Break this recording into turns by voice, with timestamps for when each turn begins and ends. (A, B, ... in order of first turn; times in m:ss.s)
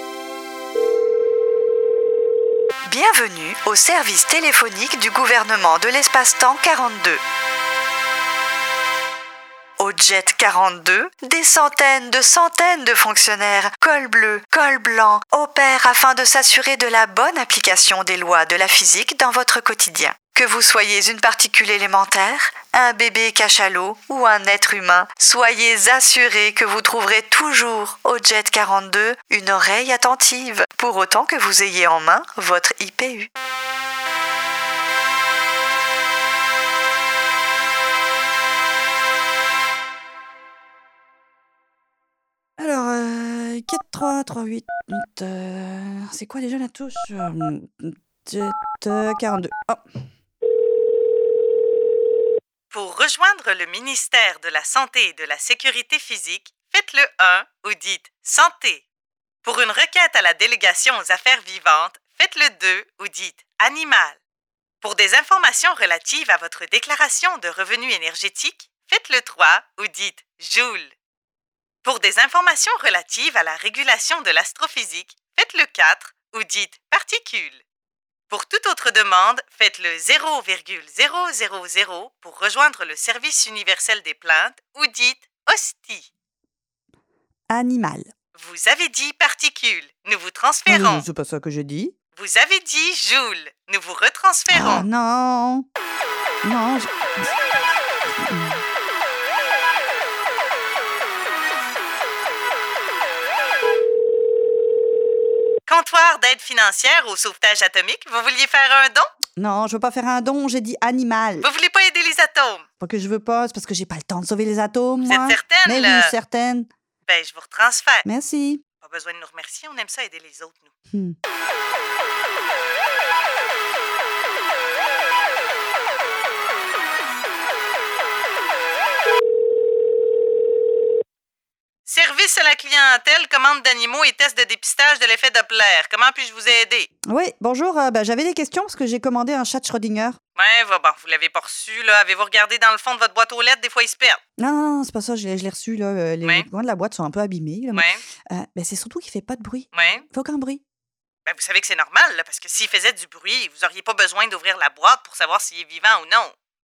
0:02.9-0:05.4 A
0:02.9-0:07.2 B
0:06.2-0:07.1 A
0:09.8-0:33.3 B
0:13.8-0:18.1 A
0:24.6-0:25.3 A
0:28.0-0:28.3 A
0:32.3-0:33.2 A
0:42.6-0:49.8 A
0:52.7-0:58.8 C
0:59.4-1:04.2 C
1:04.8-1:10.9 C
1:11.8-1:17.6 C
1:18.3-1:26.1 C
1:27.5-1:28.1 A
1:28.3-1:31.0 C
1:30.7-1:31.9 A
1:32.1-1:34.8 C
1:34.5-1:35.6 A
1:36.4-1:37.3 A
1:38.2-1:38.6 A
1:45.6-1:49.1 C
1:49.4-1:51.5 A
1:51.4-1:52.6 C
1:52.8-1:56.7 A
1:55.0-1:56.1 C
1:57.1-1:58.0 C
1:58.0-1:58.6 A
1:58.8-2:00.7 C
2:11.8-2:16.9 C
2:17.1-2:20.2 A
2:20.4-2:24.2 C
2:24.4-2:30.6 A
2:27.7-2:28.0 C
2:29.7-2:30.0 C
2:31.2-2:36.3 C